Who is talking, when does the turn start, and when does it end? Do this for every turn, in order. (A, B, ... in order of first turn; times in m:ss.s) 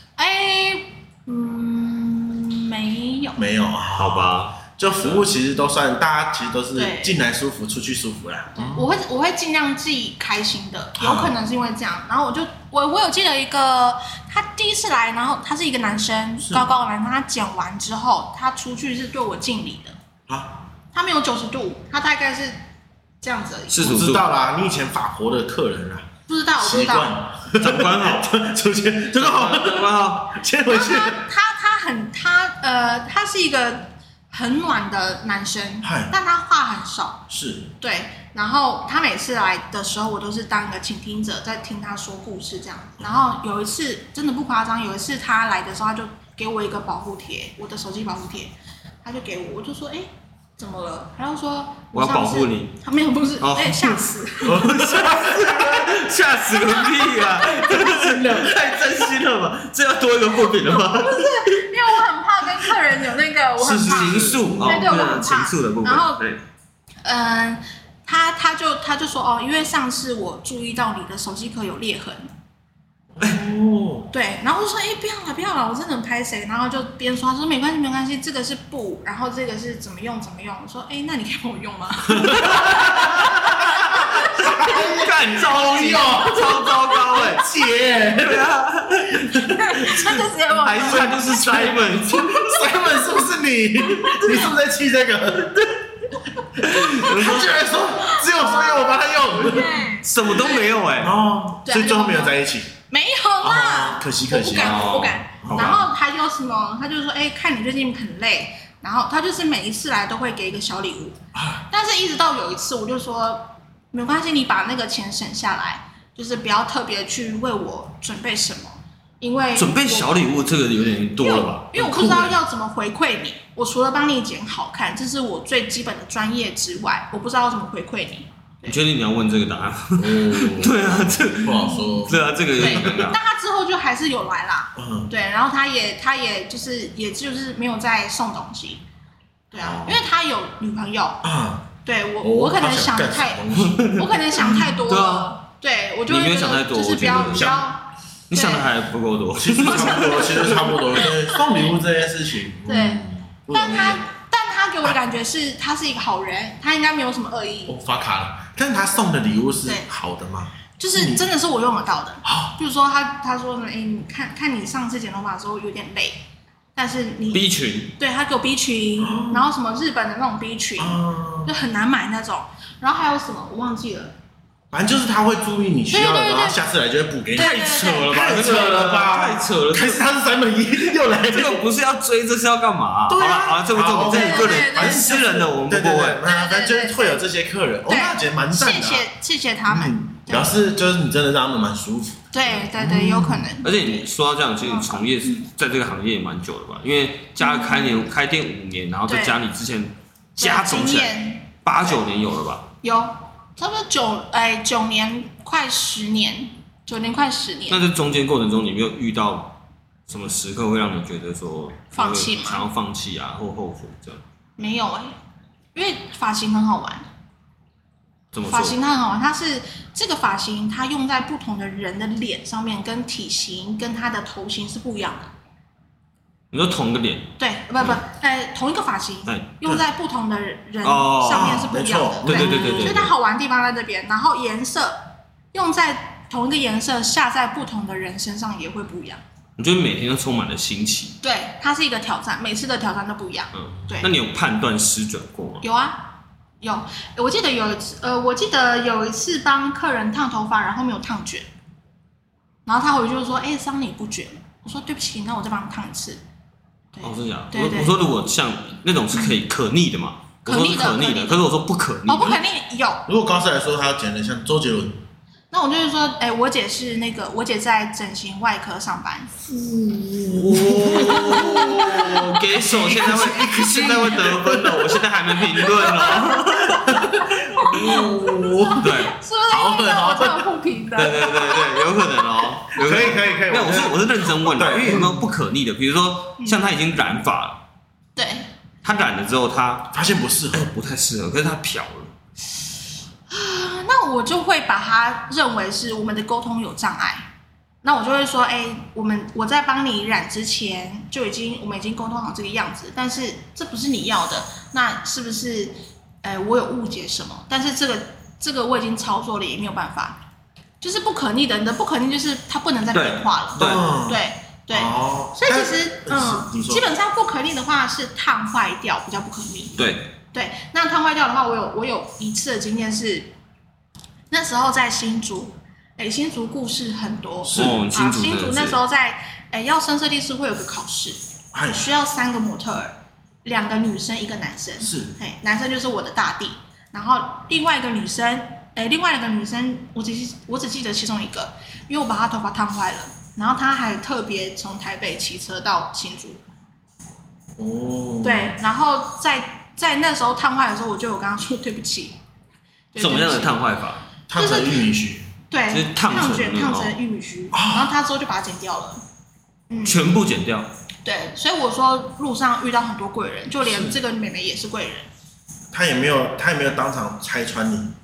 0:00.2-0:03.4 A
0:03.4-0:08.9 B
0:04.0-0:05.3 C
0:06.8-0:07.2 A
0:08.6-0:20.0 A
0:11.0-0:11.3 B
0:16.4-0:16.7 B
0:20.3-0:20.7 B
0:20.9-0:22.6 A
0:23.2-0:24.0 A
0:23.7-0:24.3 C
0:23.8-0:31.3 B
0:26.3-0:27.2 A
0:27.6-0:28.3 C
0:29.1-0:30.4 C
0:30.7-0:37.3 A
0:35.8-0:36.1 B
0:37.3-0:37.7 B
0:37.8-0:54.8 A
0:43.0-0:43.3 B
0:51.9-0:52.8 C
0:53.4-1:01.7 C
0:54.4-0:56.1 B
0:57.6-0:58.6 B
1:00.7-1:06.2 A
1:03.6-1:04.9 B
1:03.8-1:06.4 C
1:07.0-1:12.3 A
1:13.1-1:14.1 B
1:14.1-1:24.8 A
1:22.1-1:28.5 B
1:22.3-1:27.5 C
1:26.2-1:27.4 A
1:28.1-1:32.8 C
1:29.1-1:29.9 B
1:29.5-1:31.6 A
1:30.8-1:35.8 B
1:34.0-1:34.5 A
1:36.6-1:42.7 B
1:36.6-1:37.7 C
1:36.7-1:40.7 A
1:40.0-1:41.2 C
1:41.6-1:42.4 A
1:42.9-1:51.2 A
1:43.4-1:45.8 B
1:44.6-1:45.8 C
1:51.3-1:51.7 B
1:51.7-2:00.2 A
1:59.6-2:02.4 C
2:01.2-2:08.8 A
2:08.7-2:13.2 C
2:10.0-2:13.1 B
2:11.6-2:11.9 A
2:12.6-2:18.8 A
2:14.8-2:15.1 B
2:19.5-2:21.2 A
2:19.6-2:20.0 C
2:21.2-2:24.7 B
2:21.8-2:27.8 A
2:23.6-2:25.4 C
2:26.1-2:27.6 C
2:27.0-2:27.6 B
2:28.3-2:30.8 C
2:28.3-2:28.7 A
2:29.3-2:34.0 B
2:29.7-2:30.1 A
2:31.0-2:31.4 A
2:32.7-2:37.7 A
2:37.7-2:41.2 B
2:40.8-2:46.2 A
2:42.2-2:42.6 B
2:46.8-2:54.2 A
2:47.3-2:48.0 C
2:49.0-2:49.5 B
2:50.8-2:51.5 B
2:54.7-3:01.7 B
2:55.9-2:56.6 A
2:57.3-3:00.1 C
2:57.3-2:58.1 A
3:01.0-3:06.2 C
3:03.1-3:09.1 B
3:04.1-3:05.4 A
3:06.2-3:07.2 A
3:07.9-3:10.6 A
3:09.7-3:13.5 B
3:12.3-3:14.1 A
3:13.6-3:22.7 C
3:14.6-3:15.5 A
3:17.4-3:18.0 A
3:19.1-3:19.4 A
3:20.4-3:22.0 A
3:22.8-3:27.8 A
3:27.7-3:34.2 C
3:31.9-3:32.7 A
3:34.6-3:35.1 A
3:35.8-3:37.0 A
3:38.3-3:38.8 C
3:38.5-3:45.3 A
3:46.5-3:48.0 C
3:47.4-3:55.0 A
3:50.8-3:51.7 C
3:51.3-3:53.1 B
3:52.3-3:53.1 C
3:55.5-3:59.2 A
3:59.6-4:01.2 C
4:01.2-4:04.1 A
4:03.5-4:05.6 C
4:05.6-4:11.5 A
4:12.7-4:16.2 A
4:16.9-4:18.0 A
4:17.0-4:22.4 C
4:20.5-4:21.4 A
4:22.1-4:23.0 A
4:23.1-4:25.0 B
4:25.5-4:29.3 A
4:29.8-4:38.9 B
4:30.3-4:37.2 C
4:31.0-4:32.1 A
4:35.6-4:42.2 A
4:38.8-4:39.2 C
4:39.5-4:40.5 B
4:41.0-4:47.6 C
4:42.7-4:45.3 B
4:46.4-4:46.7 A
4:48.2-4:48.5 A
4:48.8-4:49.9 C
4:49.9-4:50.7 B
4:50.5-4:52.1 C
4:53.3-4:57.3 A
4:57.8-5:10.2 A
5:10.8-5:23.3 A
5:12.9-5:13.9 C
5:13.6-5:14.2 B
5:14.7-5:16.9 B
5:19.8-5:20.1 C
5:24.3-5:31.2 A
5:27.4-5:27.8 B
5:27.5-5:28.8 C
5:31.5-5:31.9 B
5:31.7-5:46.4 A
5:34.8-5:35.1 B
5:47.6-5:48.6 B
5:48.2-5:52.2 A
5:52.9-5:53.6 A
5:53.0-5:54.0 C
5:54.3-5:55.3 B
5:54.4-5:54.9 A
5:55.5-5:59.0 A
5:55.7-5:57.0 C
5:57.5-5:57.9 B
5:59.7-6:00.1 A
5:59.8-6:00.7 C
6:01.0-6:05.1 A
6:03.7-6:03.9 B
6:05.7-6:07.9 B